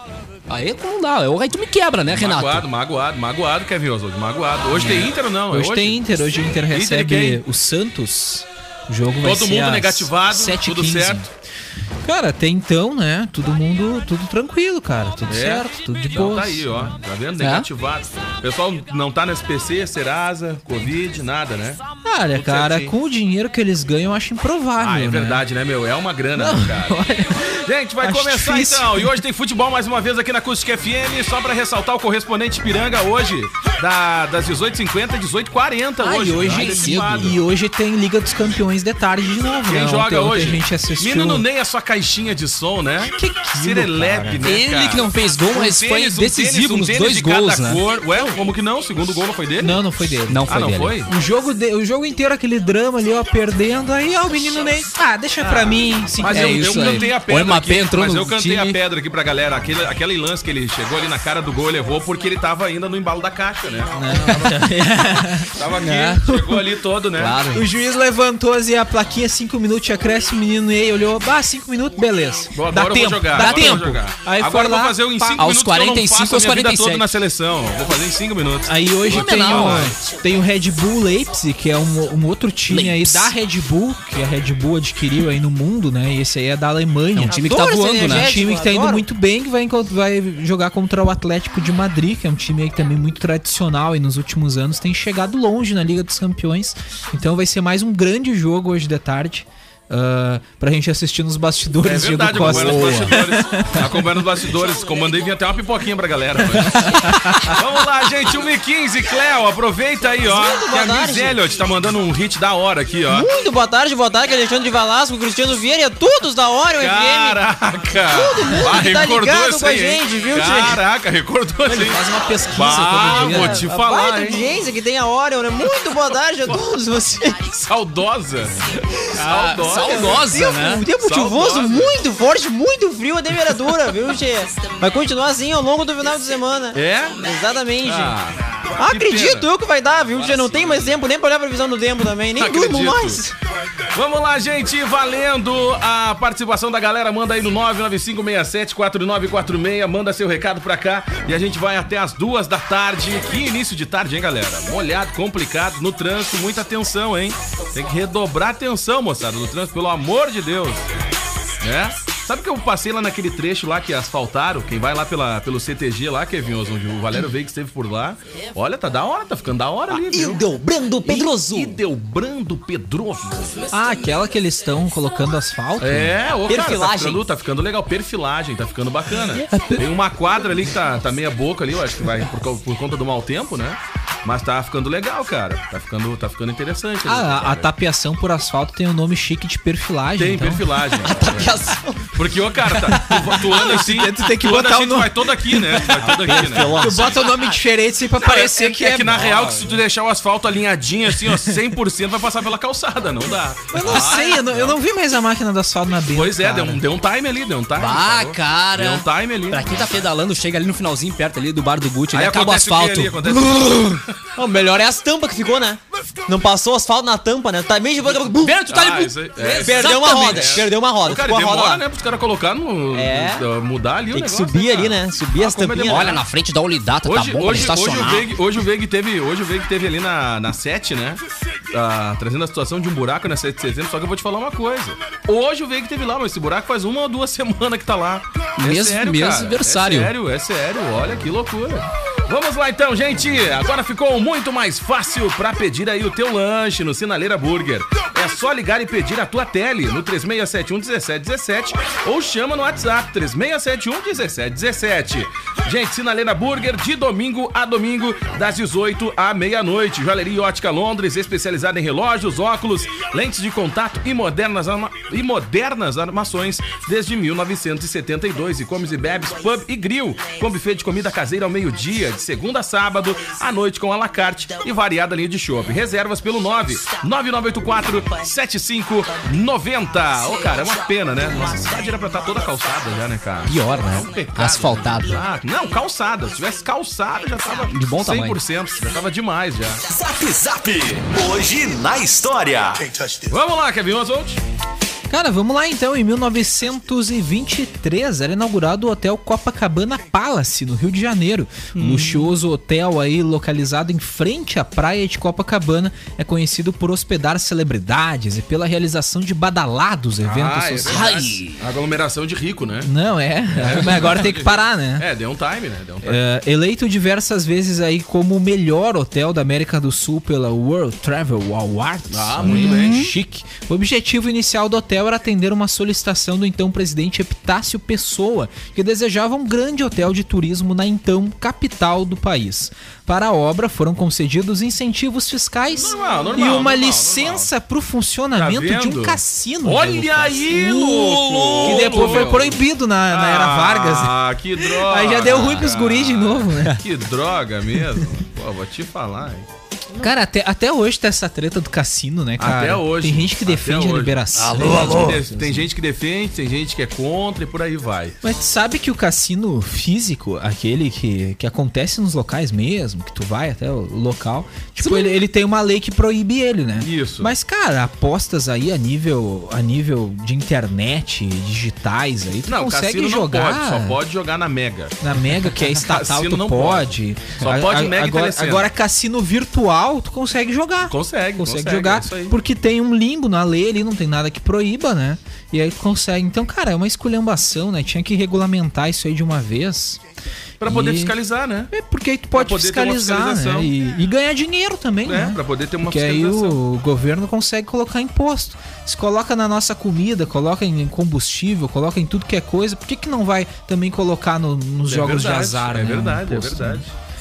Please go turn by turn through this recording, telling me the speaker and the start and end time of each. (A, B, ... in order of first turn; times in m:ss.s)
0:00.5-0:02.7 A
0:02.1-0:06.0 B
0:04.7-0:11.3 C
0:06.7-0:07.4 B
0:09.2-0:11.3 B
0:12.0-0:17.0 C
0:15.3-0:21.8 B
0:17.4-0:17.7 A
0:22.0-0:25.4 C
0:22.3-0:22.9 B
0:24.8-0:27.0 B
0:26.4-0:29.2 C
0:27.6-0:37.4 B
0:36.0-0:41.5 C
0:36.1-0:37.3 A
0:39.7-0:49.8 B
0:43.2-0:44.1 C
0:44.1-0:44.4 D
0:44.4-0:47.8 A
0:49.6-0:57.1 C
0:50.3-0:50.9 A
0:50.5-0:51.1 B
0:55.4-1:04.8 B
0:56.3-0:58.8 A
1:03.9-1:05.6 C
1:05.5-1:07.4 B
1:05.8-1:06.3 A
1:06.3-1:06.6 C
1:07.2-1:07.7 A
1:07.5-1:15.5 C
1:12.6-1:20.0 B
1:13.4-1:14.0 A
1:15.4-1:17.0 A
1:18.7-1:44.1 C
1:19.1-1:20.0 A
1:22.7-1:23.3 A
1:27.2-1:28.3 A
1:27.2-1:29.1 D
1:41.8-1:53.3 B
1:42.4-1:43.2 A
1:46.7-1:47.5 C
1:50.2-1:51.4 D
1:53.1-1:57.4 D
1:56.8-2:04.4 B
1:58.1-2:00.8 D
2:01.7-2:03.7 C
2:02.6-2:03.3 A
2:03.2-2:07.4 D
2:07.5-2:12.0 B
2:09.2-2:10.9 A
2:09.9-2:18.2 D
2:16.7-2:17.2 B
2:17.8-2:19.5 B
2:18.8-2:23.3 D
2:20.1-2:21.0 A
2:22.4-2:23.2 B
2:23.9-2:40.9 B
2:41.6-2:50.5 B
2:49.9-2:51.8 D
2:51.1-2:53.7 B
2:53.7-2:56.2 C
2:55.8-3:07.7 B
2:56.5-2:57.2 D
2:59.4-2:59.9 A
3:07.0-3:10.8 C
3:10.2-3:17.1 B
3:11.0-3:12.2 D
3:12.7-3:13.2 D
3:13.3-3:19.7 C
3:16.1-3:17.2 D
3:16.3-3:16.6 A
3:18.2-3:24.8 B
3:23.7-3:26.8 C
3:23.8-3:24.3 A
3:26.1-3:30.0 B
3:27.8-3:33.7 A
3:32.1-3:34.0 B
3:34.4-3:38.6 D
3:38.3-3:40.6 A
3:38.7-3:46.2 B
3:39.6-3:41.8 D
3:42.9-3:43.4 D
3:44.1-3:46.2 D
3:45.9-3:48.3 A
3:47.0-4:49.8 B
3:58.6-4:00.1 A
4:43.5-4:45.2 A
4:47.7-4:48.4 A
4:50.1-4:52.8 E
4:51.3-4:52.4 A
4:53.3-4:54.4 B
4:55.1-5:11.1 C
5:01.8-5:02.3 A
5:10.2-5:12.9 B
5:10.9-5:11.6 A
5:12.8-5:15.1 C
5:13.5-5:16.2 B
5:16.0-5:46.8 C
5:22.1-5:23.1 B
5:22.4-5:22.7 A
5:35.7-5:37.5 B
5:38.4-5:49.5 B
5:40.6-5:42.4 A
5:45.3-5:45.6 A
5:50.0-5:55.7 C
5:52.4-5:58.2 B
5:54.3-5:55.2 A
5:58.2-6:14.0 C
6:06.8-6:07.3 B
6:12.5-6:15.0 B
6:15.0-6:30.0 C
6:15.7-6:18.7 B
6:20.8-6:22.4 B
6:30.6-6:31.7 B
6:30.6-6:31.2 C
6:31.7-6:46.8 C
6:32.3-6:33.7 B
6:35.0-6:36.6 B
6:44.8-6:46.9 B